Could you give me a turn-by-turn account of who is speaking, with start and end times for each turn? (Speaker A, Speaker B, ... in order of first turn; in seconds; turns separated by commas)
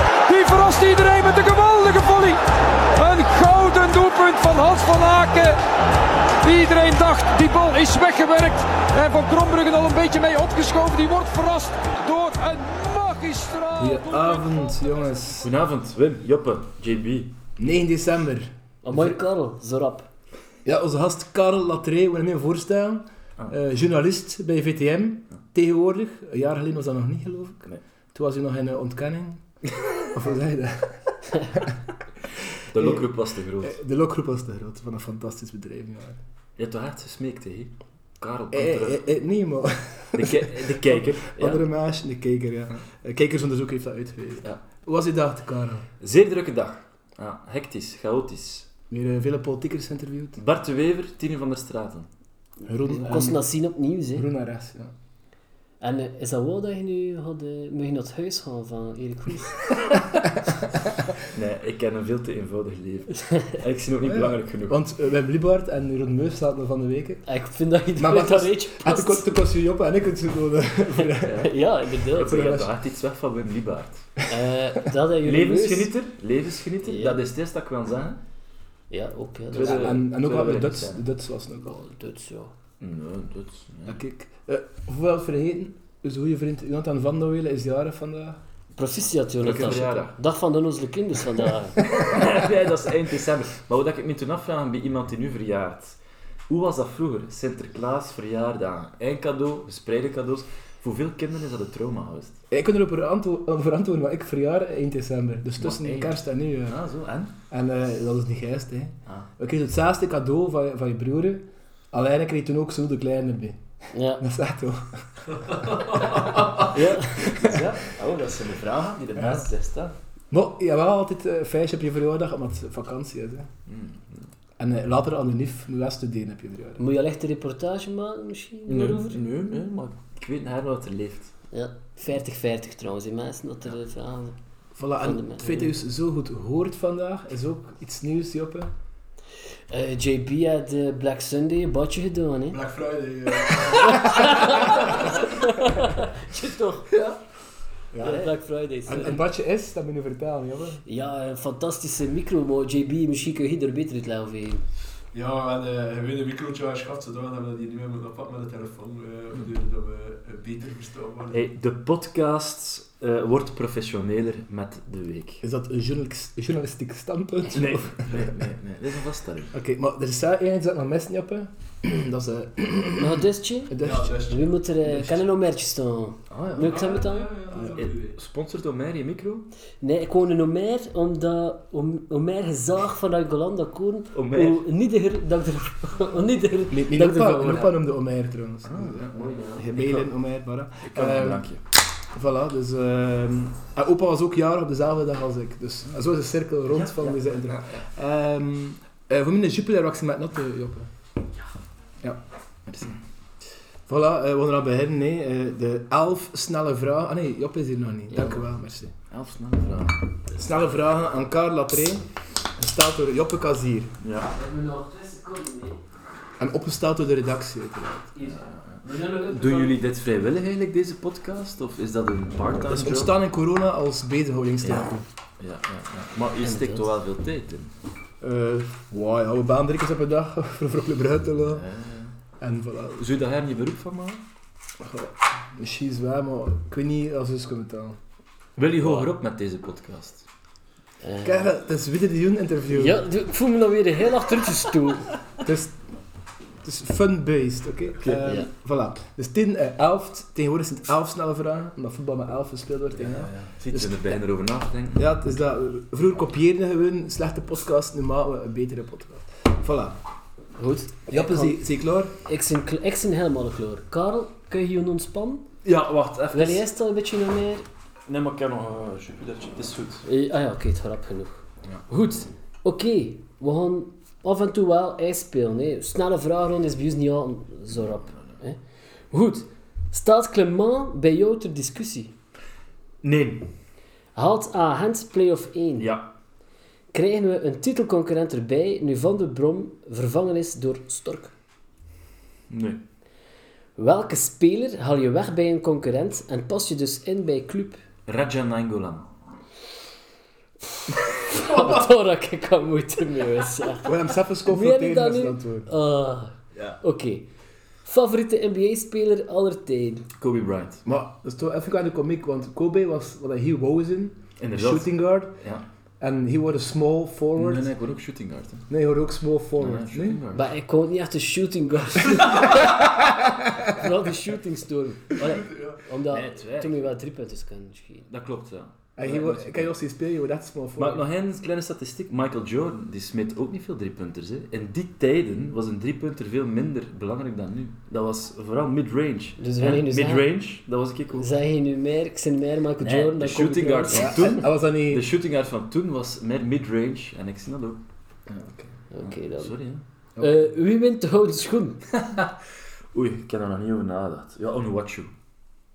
Speaker A: 0.3-2.4, Speaker A: 3.0-5.6, Speaker A: 6.4-15.3, Speaker B: 13.8-15.5, Speaker C: 15.4-17.4, Speaker B: 17.6-18.5, Speaker D: 18.8-20.1, Speaker B: 20.6-29.5, Speaker B: 30.0-31.8, Speaker B: 32.3-33.0, Speaker C: 32.7-33.8, Speaker B: 33.6-36.2, Speaker C: 36.6-39.0, Speaker B: 38.5-45.9, Speaker C: 40.1-41.6, Speaker C: 46.0-48.7, Speaker B: 48.9-50.4, Speaker C: 50.4-52.1, Speaker B: 52.7-53.4, Speaker D: 52.9-54.3, Speaker B: 54.1-54.9, Speaker D: 55.8-59.6, Speaker C: 61.3-64.8, Speaker B: 64.1-67.2, Speaker D: 67.3-69.3, Speaker B: 68.0-71.5, Speaker D: 71.0-72.6, Speaker C: 71.2-74.2, Speaker B: 72.3-72.6, Speaker D: 74.3-75.9, Speaker C: 75.2-78.2, Speaker D: 76.8-77.2, Speaker D: 78.9-80.0, Speaker C: 79.5-81.0, Speaker B: 79.5-81.8, Speaker D: 81.6-82.5, Speaker C: 82.8-84.0, Speaker B: 83.9-88.4, Speaker D: 88.8-91.9, Speaker C: 89.4-90.2, Speaker C: 91.9-96.0, Speaker C: 96.5-102.4, Speaker B: 102.5-106.8, Speaker C: 105.6-107.3, Speaker B: 107.5-113.6, Speaker D: 113.9-114.2, Speaker B: 114.2-117.6, Speaker C: 116.5-120.0, Speaker D: 116.7-117.2, Speaker B: 119.2-119.5, Speaker B: 120.3-123.5, Speaker C: 123.7-124.3, Speaker B: 124.6-126.8, Speaker D: 126.8-129.2, Speaker C: 128.7-131.3, Speaker D: 131.5-134.3, Speaker B: 134.8-138.7, Speaker D: 135.0-135.5, Speaker D: 139.7-142.6, Speaker E: 142.5-145.3, Speaker D: 143.7-146.9, Speaker B: 147.9-148.2, Speaker D: 148.0-149.2, Speaker B: 148.8-150.8, Speaker D: 150.9-154.6, Speaker E: 155.1-161.4, Speaker C: 161.3-165.4, Speaker B: 165.4-168.4, Speaker C: 167.5-169.5, Speaker B: 169.5-175.2, Speaker D: 173.0-177.4, Speaker E: 173.8-174.6, Speaker C: 176.3-176.7, Speaker E: 176.6-178.2, Speaker B: 177.5-177.8, Speaker C: 177.7-179.5, Speaker D: 179.8-187.6, Speaker C: 184.1-184.6, Speaker B: 186.7-191.5, Speaker C: 187.2-187.7, Speaker C: 188.7-190.1, Speaker C: 190.8-191.6, Speaker B: 192.0-200.9, Speaker C: 196.7-197.8, Speaker C: 202.7-203.0, Speaker B: 203.9-208.9, Speaker C: 208.1-208.4, Speaker C: 209.1-210.1, Speaker B: 210.3-214.0, Speaker C: 214.0-214.3, Speaker D: 214.3-215.8, Speaker B: 216.4-218.1, Speaker D: 218.2-219.8, Speaker C: 218.2-223.2, Speaker B: 222.7-225.1, Speaker C: 224.6-227.7, Speaker D: 226.4-226.9, Speaker B: 228.2-231.7, Speaker C: 231.5-232.2, Speaker B: 232.4-233.0, Speaker C: 233.0-234.2, Speaker B: 234.8-238.0, Speaker C: 238.6-240.2, Speaker D: 241.0-241.5, Speaker B: 241.2-243.0, Speaker D: 242.7-245.1, Speaker B: 245.4-245.8, Speaker B: 246.6-254.2, Speaker C: 248.0-248.3, Speaker C: 253.0-255.2, Speaker B: 254.9-260.0, Speaker D: 260.6-261.6, Speaker B: 261.1-262.1, Speaker D: 262.2-265.5, Speaker C: 265.6-266.6, Speaker D: 266.3-267.6, Speaker C: 268.1-270.0, Speaker D: 270.0-278.6, Speaker D: 279.1-282.1, Speaker C: 283.0-283.5, Speaker D: 284.1-285.9, Speaker C: 285.8-286.1, Speaker D: 286.9-291.3, Speaker C: 292.5-292.8, Speaker D: 293.8-297.8, Speaker C: 298.1-299.1, Speaker D: 301.0-307.3, Speaker B: 303.8-305.7, Speaker C: 306.6-306.8, Speaker D: 307.8-310.1, Speaker C: 310.2-310.8, Speaker B: 310.9-315.4, Speaker C: 314.4-315.6, Speaker B: 316.0-317.7, Speaker C: 317.4-318.7, Speaker B: 318.7-320.2, Speaker C: 319.6-320.5, Speaker D: 320.3-328.1, Speaker E: 325.2-325.8, Speaker C: 326.1-326.9, Speaker C: 328.1-329.7, Speaker B: 329.0-331.1, Speaker C: 330.8-341.3, Speaker D: 339.4-340.3, Speaker D: 341.2-344.4, Speaker C: 342.8-347.8, Speaker B: 343.9-345.1, Speaker B: 348.3-348.8, Speaker D: 348.9-349.6, Speaker C: 349.0-349.8, Speaker B: 350.2-350.5, Speaker D: 350.2-351.9, Speaker C: 352.9-355.1